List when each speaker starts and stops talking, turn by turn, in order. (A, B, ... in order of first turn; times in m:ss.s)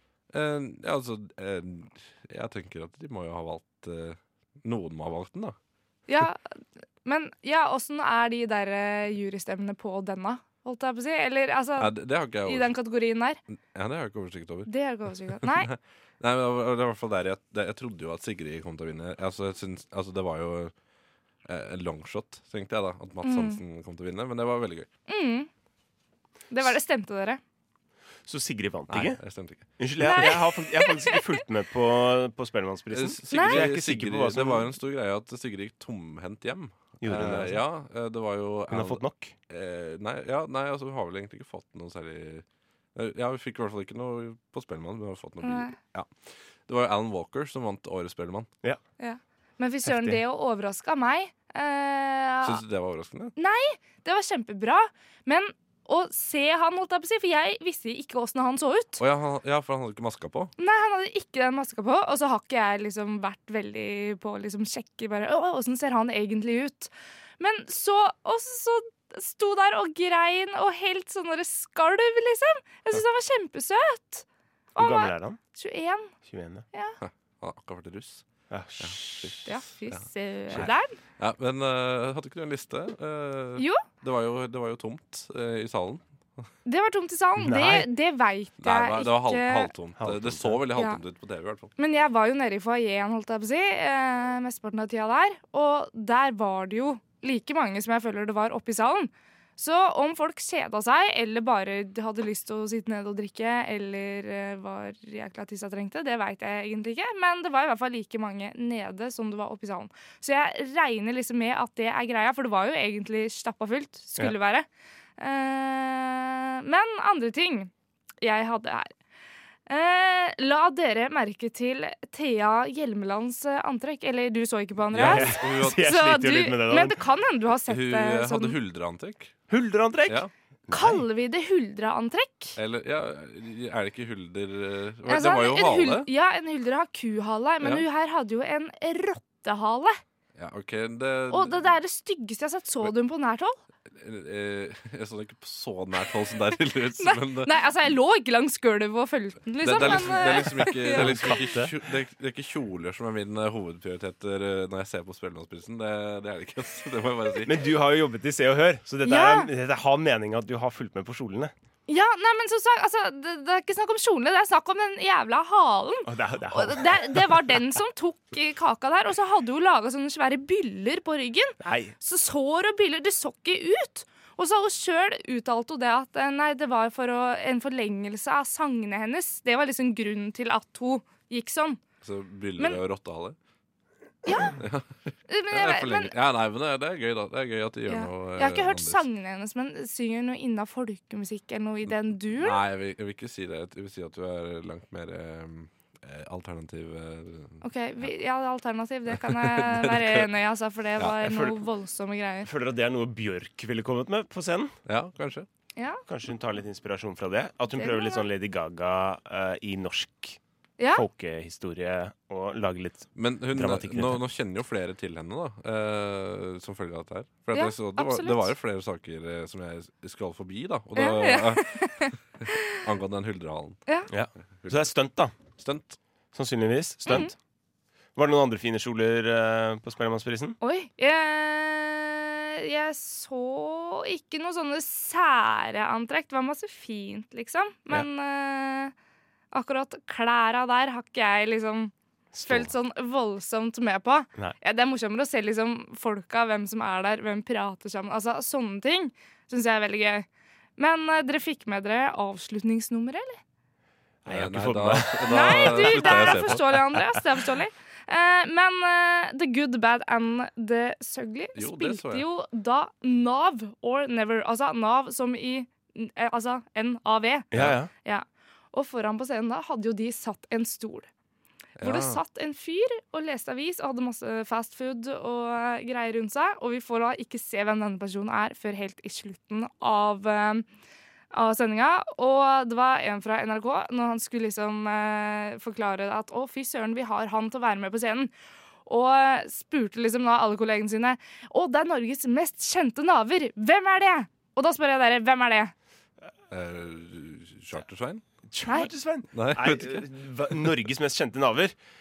0:00.3-0:05.6 A
0:06.1-0:06.4 B
0:07.0-0:13.4 B
0:11.8-0:12.7 A
0:13.5-0:14.7 A
0:14.7-0:15.7 B
0:15.3-0:20.7 A
0:21.4-0:24.9 A
0:23.2-0:23.6 B
0:25.1-0:25.5 B
0:26.5-0:27.4 B
0:28.3-0:29.2 C
0:28.9-0:30.2 A
0:29.8-0:34.7 C
0:30.0-0:31.2 B
0:32.9-0:48.5 A
0:33.3-0:33.6 B
0:37.0-0:37.6 C
0:38.7-0:39.3 C
0:45.4-0:45.8 B
0:49.0-0:52.6 B
0:49.8-0:50.2 C
0:52.4-0:53.3 A
0:53.4-0:59.0 B
0:59.0-1:00.5 A
1:00.6-1:16.1 B
1:14.8-1:15.4 C
1:16.2-1:16.6 C
1:16.7-1:17.0 B
1:17.0-1:18.2 A
1:18.5-1:19.4 C
1:18.8-1:26.4 A
1:19.4-1:21.0 B
1:23.6-1:23.8 B
1:26.6-1:29.7 B
1:27.4-1:27.9 C
1:28.6-1:31.7 A
1:30.0-1:30.6 C
1:30.7-1:31.0 B
1:31.8-1:54.7 B
1:55.2-1:57.7 B
1:58.2-1:58.9 B
1:59.7-2:08.6 B
2:04.9-2:05.9 A
2:04.9-2:07.0 C
2:07.7-2:09.4 A
2:09.5-2:11.0 C
2:10.0-2:10.3 A
2:10.7-2:12.6 B
2:12.6-2:16.1 A
2:15.0-2:20.0 B
2:20.4-2:21.6 A
2:21.3-2:23.6 B
2:23.8-2:27.5 A
2:27.0-2:31.4 B
2:29.6-2:37.7 A
2:30.9-2:31.7 C
2:37.4-2:41.5 C
2:39.0-2:39.5 B
2:41.9-3:01.8 B
2:46.0-2:47.4 C
2:51.6-2:51.9 C
3:02.0-3:03.4 A
3:04.2-3:04.6 B
3:04.6-3:09.0 A
3:05.3-3:06.1 B
3:07.9-3:12.6 B
3:12.3-3:17.6 A
3:17.6-3:22.5 B
3:19.1-3:20.3 A
3:21.0-3:21.3 A
3:21.2-3:21.6 C
3:22.4-3:24.7 C
3:24.8-3:25.5 A
3:25.8-3:26.0 B
3:26.1-3:30.4 C
3:27.8-3:28.2 B
3:30.8-3:31.0 B
3:30.9-3:34.2 C
3:33.1-3:42.0 A
3:37.5-3:38.5 B
3:41.0-3:42.8 B
3:42.8-3:43.8 A
3:44.1-3:45.3 C
3:44.6-3:44.9 A
3:45.6-3:46.0 A
3:46.3-3:47.4 C
3:47.1-3:47.3 B
3:48.2-3:50.6 C
3:50.6-3:58.9 B
3:59.5-4:01.9 B
4:02.3-4:02.7 C
4:02.4-4:13.4 B
4:14.2-4:16.6 C
4:14.2-4:17.0 A
4:15.2-4:31.1 B
4:21.5-4:22.2 A
4:27.5-4:27.9 C
4:27.5-4:27.8 A
4:31.8-4:32.2 A
4:31.8-4:40.6 B
4:41.3-4:48.3 B
4:48.8-4:55.7 B
4:56.5-4:58.2 A
4:58.5-5:01.8 C
4:59.3-5:00.8 A